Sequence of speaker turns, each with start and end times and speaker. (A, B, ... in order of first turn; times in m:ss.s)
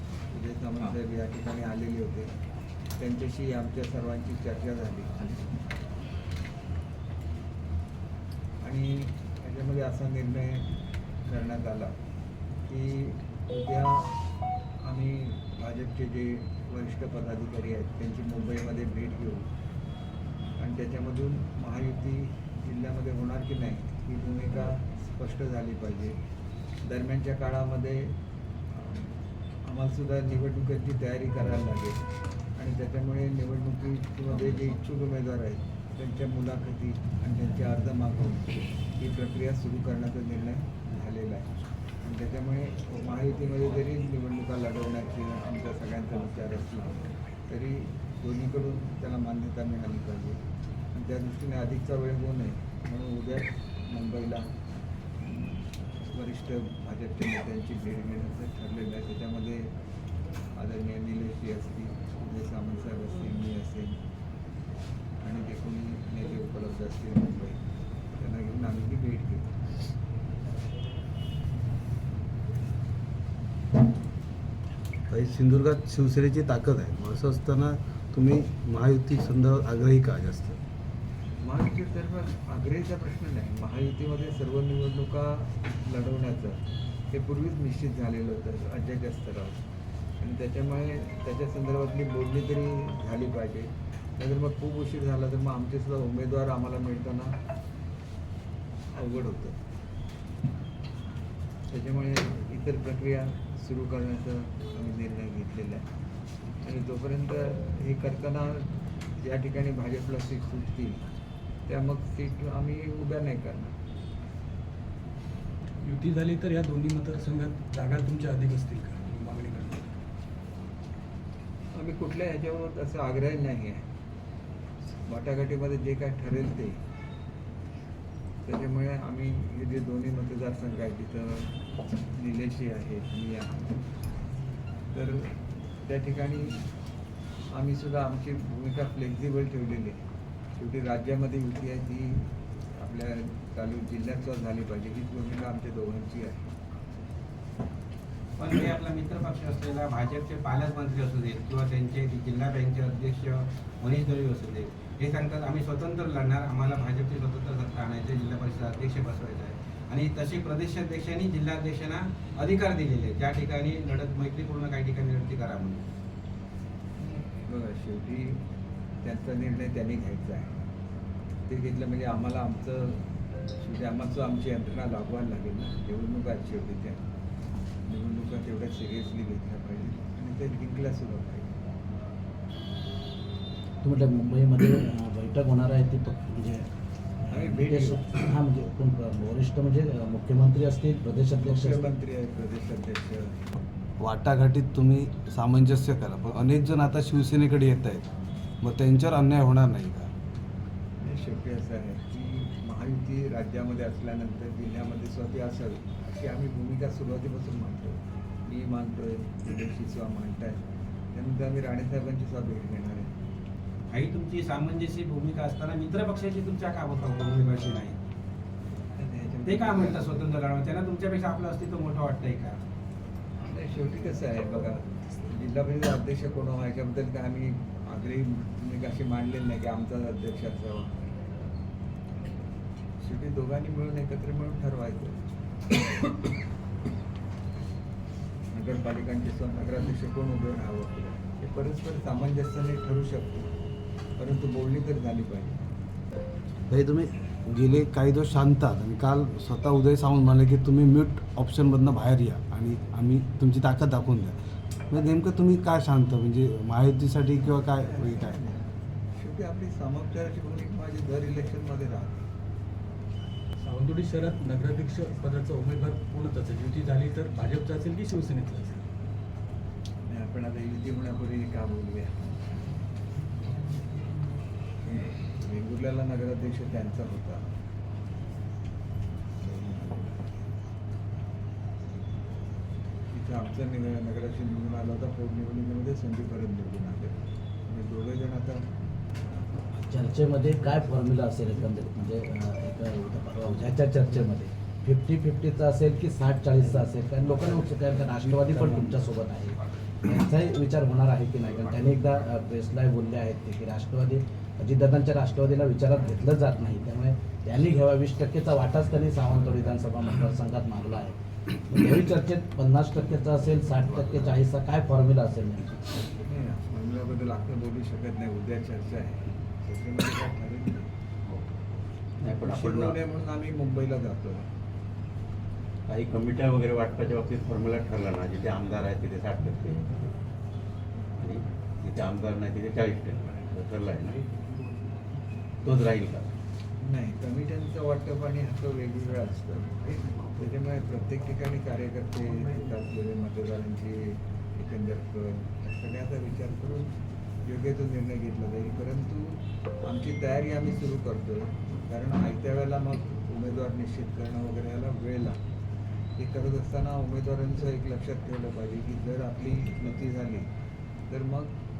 0:00.3-0:02.4 A
0:03.0-0:05.5 A
0:08.6-0:10.7 A
0:11.2-0:11.9 A
0:12.7-0:14.2 A
0:14.8-0:19.5 A
0:20.6-0:26.2 A
0:26.8-0:28.2 A
0:28.7-0:29.1 A
0:29.6-0:32.0 A
0:32.6-0:50.4 A
0:50.9-0:54.5 A
0:55.2-0:59.7 A
1:00.5-1:04.0 A
1:05.2-1:09.5 A
1:15.1-1:20.6 B
1:21.4-1:26.6 A
1:27.1-1:29.6 A
1:30.2-1:37.4 A
1:38.9-1:39.6 A
1:41.7-1:45.9 A
1:46.6-1:51.0 A
1:51.7-1:53.7 A
1:55.8-1:59.9 C
2:01.7-2:03.9 A
2:05.0-2:06.8 A
2:08.4-2:13.9 A
2:14.9-2:16.7 A
2:17.5-2:20.0 A
2:20.6-2:26.5 A
2:28.4-2:45.8 D
2:47.0-2:48.4 A
2:49.0-2:50.6 A
2:51.5-2:53.0 A
2:53.6-2:57.0 A
2:57.9-3:01.5 A
3:03.8-3:06.7 E
3:07.2-3:08.0 A
3:07.3-3:11.9 E
3:11.4-3:13.4 A
3:14.0-3:18.1 B
3:18.6-3:20.1 B
3:21.0-3:33.1 A
3:33.9-3:38.0 D
3:39.0-3:40.2 A
3:39.4-3:42.6 D
3:43.4-3:51.0 A
3:53.0-3:55.2 A
3:58.5-4:03.5 A
4:04.2-4:05.6 A
4:06.7-4:14.4 B
4:14.9-4:18.4 B
4:17.9-4:22.2 A
4:23.6-4:28.8 C
4:30.1-4:32.6 A
4:34.8-4:37.4 A
4:39.4-4:40.4 A
4:43.1-4:48.7 A
4:49.8-5:15.8 E
4:58.2-4:58.9 B
5:16.2-5:20.9 A
5:21.2-5:21.6 F
5:22.2-5:23.0 F
5:22.3-5:24.5 A
5:25.9-5:30.0 F
5:31.2-5:34.3 F
5:35.6-5:36.3 F
5:36.8-5:55.4 A
5:56.2-6:00.5 A
6:01.1-6:01.5 A